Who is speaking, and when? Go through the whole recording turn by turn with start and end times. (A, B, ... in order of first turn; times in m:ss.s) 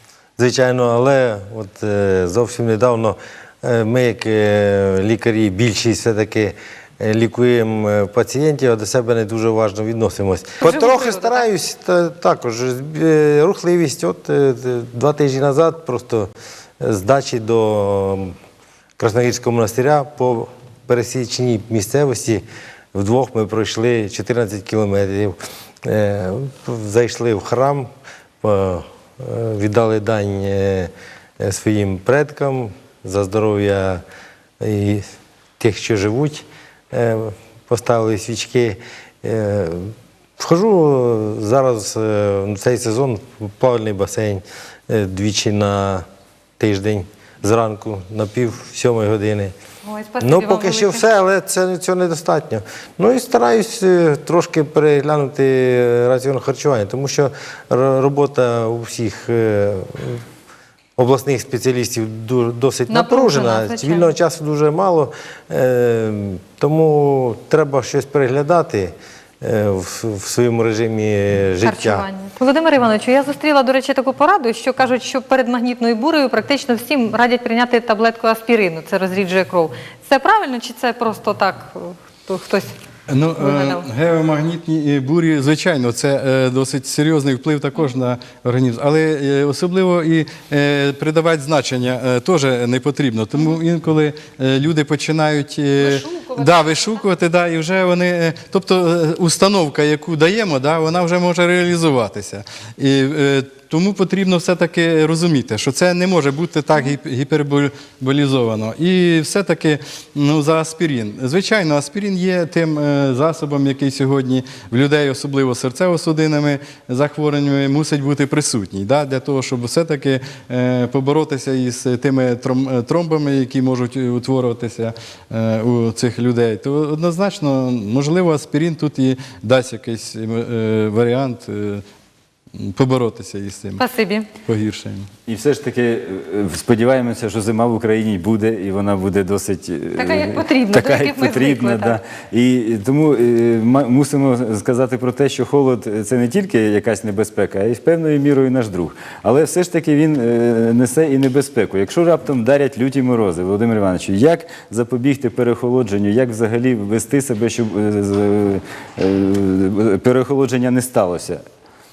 0:00.4-0:18.3 A
0:10.6-0:11.4 B
0:19.0-0:27.9 A
0:28.4-0:34.0 A
0:34.6-0:35.0 A
0:35.6-0:46.0 A
0:46.6-0:49.5 A
0:49.8-0:51.0 B
0:50.2-1:00.2 A
1:01.0-1:12.0 A
1:02.9-1:04.1 B
1:11.6-1:22.7 B
1:23.1-2:11.8 C
1:23.4-1:23.8 B
1:35.8-1:37.0 B
2:12.5-2:13.8 C
2:13.8-2:14.3 B
2:14.4-2:15.1 C
2:15.2-2:41.4 D
2:20.0-2:22.0 B